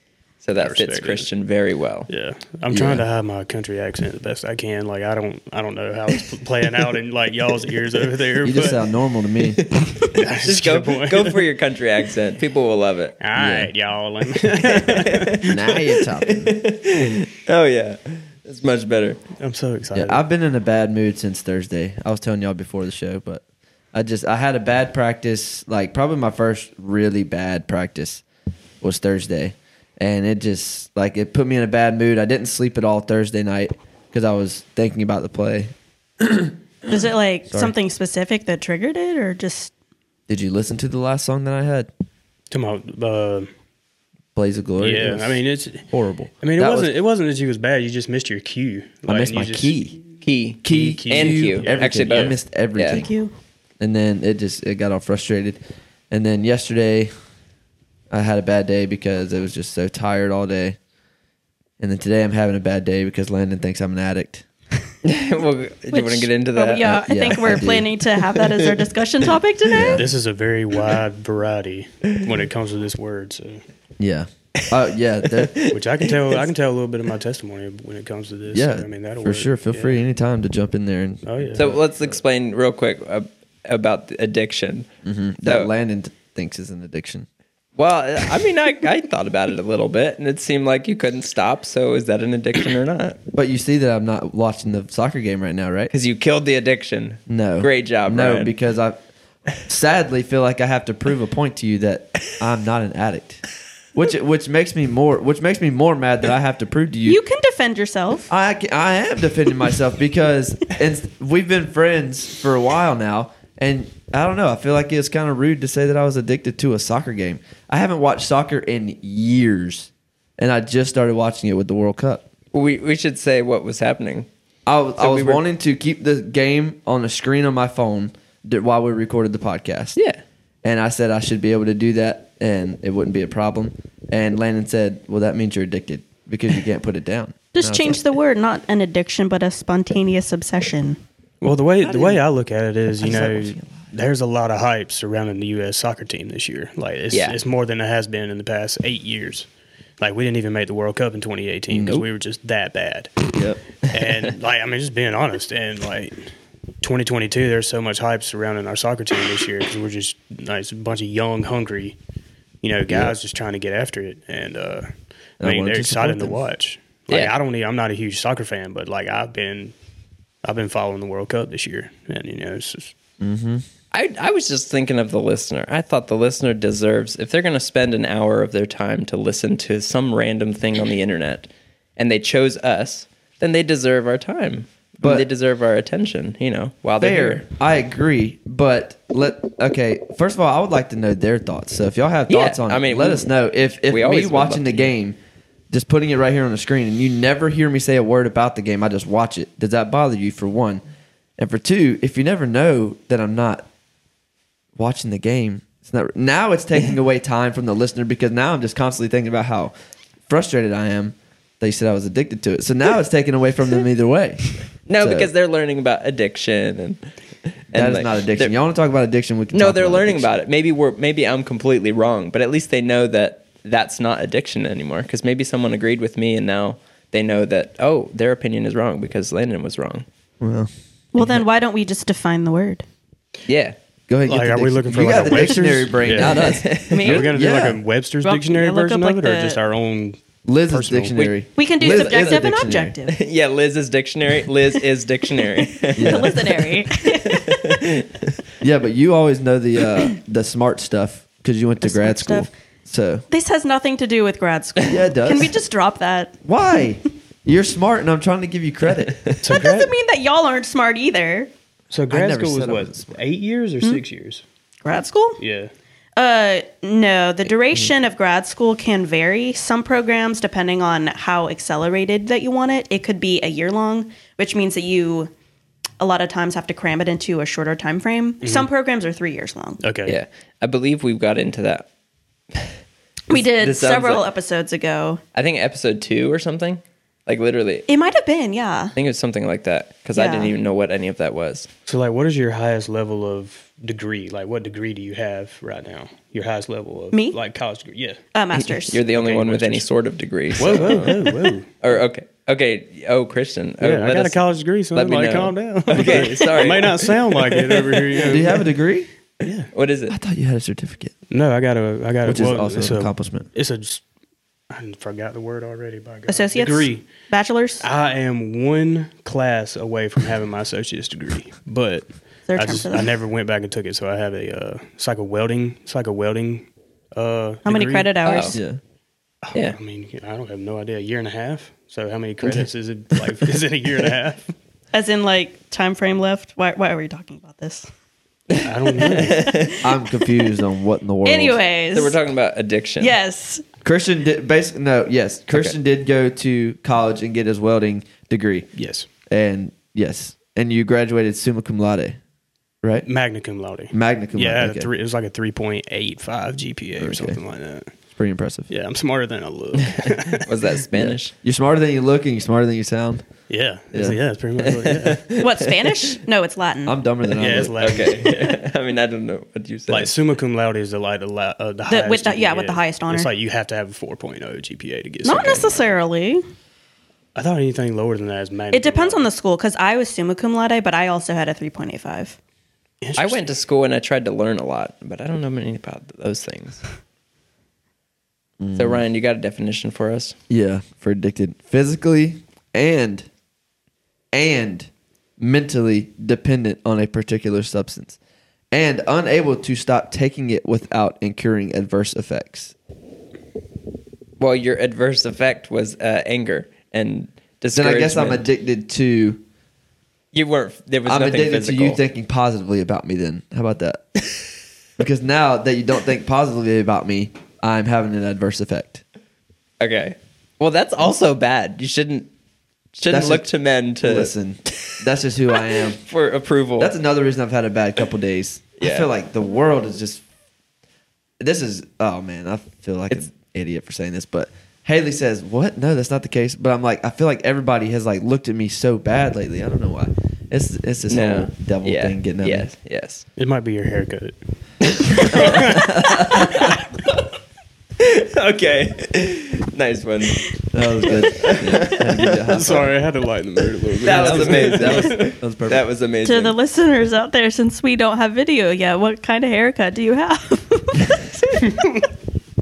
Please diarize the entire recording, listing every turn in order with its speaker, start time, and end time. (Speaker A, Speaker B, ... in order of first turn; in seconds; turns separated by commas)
Speaker A: 0.4-2.1, Speaker B: 0.6-1.3, Speaker B: 2.1-8.8, Speaker C: 2.7-3.0, Speaker C: 8.4-9.6, Speaker A: 9.6-13.2, Speaker B: 10.2-11.4, Speaker B: 13.2-15.5, Speaker C: 13.3-13.7, Speaker A: 14.6-19.2, Speaker C: 15.4-16.6, Speaker B: 19.4-20.2, Speaker C: 19.9-28.2, Speaker C: 28.8-36.5, Speaker D: 36.9-39.7, Speaker C: 40.3-41.9, Speaker B: 42.5-43.5, Speaker C: 44.4-46.9, Speaker B: 44.8-45.9, Speaker B: 46.4-49.8, Speaker C: 49.1-50.0, Speaker A: 50.2-53.1, Speaker C: 50.6-53.1, Speaker B: 50.7-52.3, Speaker D: 52.9-53.3, Speaker C: 53.8-57.1, Speaker C: 58.1-60.8, Speaker C: 61.8-64.5, Speaker A: 65.0-67.1, Speaker D: 65.9-70.0, Speaker C: 67.0-67.9, Speaker C: 69.7-70.0, Speaker B: 70.0-73.6, Speaker C: 74.0-75.6, Speaker A: 75.3-76.4, Speaker B: 75.7-80.0, Speaker C: 78.5-82.2, Speaker B: 81.2-81.6, Speaker A: 81.6-84.9, Speaker C: 85.0-87.3, Speaker A: 85.5-85.7, Speaker A: 87.8-93.2, Speaker C: 93.3-95.9, Speaker A: 95.9-98.5, Speaker C: 97.3-99.0, Speaker C: 99.6-107.2, Speaker D: 107.1-108.3, Speaker C: 108.3-122.2, Speaker A: 122.5-124.3, Speaker C: 124.7-130.0, Speaker A: 125.0-125.4, Speaker A: 130.0-130.2, Speaker C: 130.6-138.0, Speaker D: 137.5-141.0, Speaker B: 141.4-149.5, Speaker C: 141.8-142.2, Speaker C: 143.0-143.9, Speaker A: 147.1-147.4, Speaker B: 150.0-153.2, Speaker C: 151.7-152.1, Speaker C: 153.3-153.6, Speaker B: 153.9-156.3, Speaker B: 156.8-162.0, Speaker B: 162.6-169.8, Speaker C: 162.9-163.2, Speaker C: 165.4-166.4, Speaker B: 170.4-172.9, Speaker C: 173.2-173.6, Speaker A: 173.9-187.4, Speaker C: 185.0-185.3, Speaker C: 187.0-195.2, Speaker A: 192.3-194.9, Speaker C: 195.7-200.8, Speaker C: 201.4-203.7, Speaker C: 204.8-209.7, Speaker C: 210.3-215.3, Speaker A: 214.9-217.0, Speaker A: 217.7-218.5, Speaker C: 217.7-220.4, Speaker A: 219.5-230.1, Speaker C: 230.4-230.7, Speaker D: 231.1-232.8, Speaker A: 233.5-233.8, Speaker C: 234.1-237.8, Speaker B: 234.3-241.1, Speaker A: 236.3-237.1, Speaker D: 236.9-237.3, Speaker D: 238.2-239.6, Speaker C: 240.5-242.9, Speaker A: 241.2-242.4, Speaker D: 241.6-243.2, Speaker A: 243.1-248.2, Speaker D: 245.9-247.8, Speaker C: 246.0-246.3, Speaker C: 248.6-253.2, Speaker D: 251.8-252.5, Speaker D: 253.3-256.4, Speaker C: 254.9-255.5, Speaker C: 256.4-259.4, Speaker B: 259.4-259.9, Speaker D: 259.5-261.5, Speaker B: 261.9-264.4, Speaker C: 262.1-263.2, Speaker D: 264.9-265.4, Speaker B: 265.4-265.7, Speaker D: 266.2-275.3, Speaker D: 276.0-279.8, Speaker B: 278.4-278.7, Speaker B: 279.8-280.2, Speaker A: 280.1-281.9, Speaker D: 283.3-285.2, Speaker A: 283.3-284.2, Speaker A: 285.4-287.9, Speaker D: 287.9-288.9, Speaker A: 288.9-291.7, Speaker D: 290.1-290.5, Speaker B: 291.9-298.2, Speaker D: 297.1-297.4, Speaker D: 298.3-299.0, Speaker A: 298.5-308.4, Speaker B: 299.1-299.9, Speaker B: 300.6-301.7, Speaker B: 303.8-308.7, Speaker C: 308.2-309.1, Speaker B: 309.4-309.7, Speaker A: 309.7-310.1, Speaker C: 310.1-311.1, Speaker B: 311.3-314.0, Speaker C: 312.2-313.5, Speaker B: 314.7-317.1, Speaker D: 316.3-317.9, Speaker B: 317.8-328.1, Speaker D: 322.5-323.1, Speaker D: 327.6-328.6, Speaker A: 328.2-328.6, Speaker C: 328.5-328.8, Speaker B: 329.4-334.5, Speaker D: 334.9-337.9, Speaker A: 338.5-339.8, Speaker B: 338.6-339.5, Speaker D: 339.4-340.2, Speaker C: 339.8-341.6, Speaker D: 341.2-342.2, Speaker A: 341.9-343.1, Speaker D: 343.0-343.6, Speaker C: 343.8-348.7, Speaker B: 348.8-349.1, Speaker C: 349.3-352.2, Speaker C: 352.8-353.1, Speaker B: 353.0-357.9, Speaker C: 353.9-354.9, Speaker C: 357.0-357.4, Speaker C: 358.2-358.7, Speaker B: 358.7-360.5, Speaker A: 360.4-361.3, Speaker C: 360.9-363.3, Speaker B: 363.5-365.2, Speaker C: 363.9-364.2, Speaker A: 365.0-365.4, Speaker D: 365.4-367.0, Speaker C: 366.9-368.2, Speaker B: 367.4-368.6, Speaker A: 367.8-370.1, Speaker B: 369.9-375.9, Speaker D: 371.9-373.3, Speaker D: 375.2-376.4, Speaker B: 377.4-379.3, Speaker D: 378.7-382.4, Speaker B: 383.0-383.5, Speaker A: 383.2-386.8, Speaker C: 388.6-389.0, Speaker A: 388.8-390.4, Speaker C: 390.5-393.3, Speaker C: 394.3-398.2, Speaker C: 398.7-402.7, Speaker A: 404.4-408.5, Speaker C: 407.7-409.4, Speaker A: 410.3-412.0, Speaker C: 411.1-414.2, Speaker C: 415.0-419.0, Speaker A: 419.8-422.3, Speaker A: 422.9-425.0, Speaker C: 423.1-423.5, Speaker C: 424.0-426.0, Speaker A: 425.5-426.9, Speaker C: 426.8-430.2, Speaker A: 428.8-429.1, Speaker C: 431.4-442.7, Speaker A: 441.1-443.3, Speaker B: 443.4-444.4, Speaker A: 445.0-446.8, Speaker B: 445.3-445.9, Speaker C: 445.3-446.7, Speaker A: 448.0-450.5, Speaker C: 450.7-453.0, Speaker A: 451.1-452.4, Speaker B: 452.5-455.2, Speaker A: 454.0-456.6, Speaker C: 454.0-455.9, Speaker D: 456.2-461.2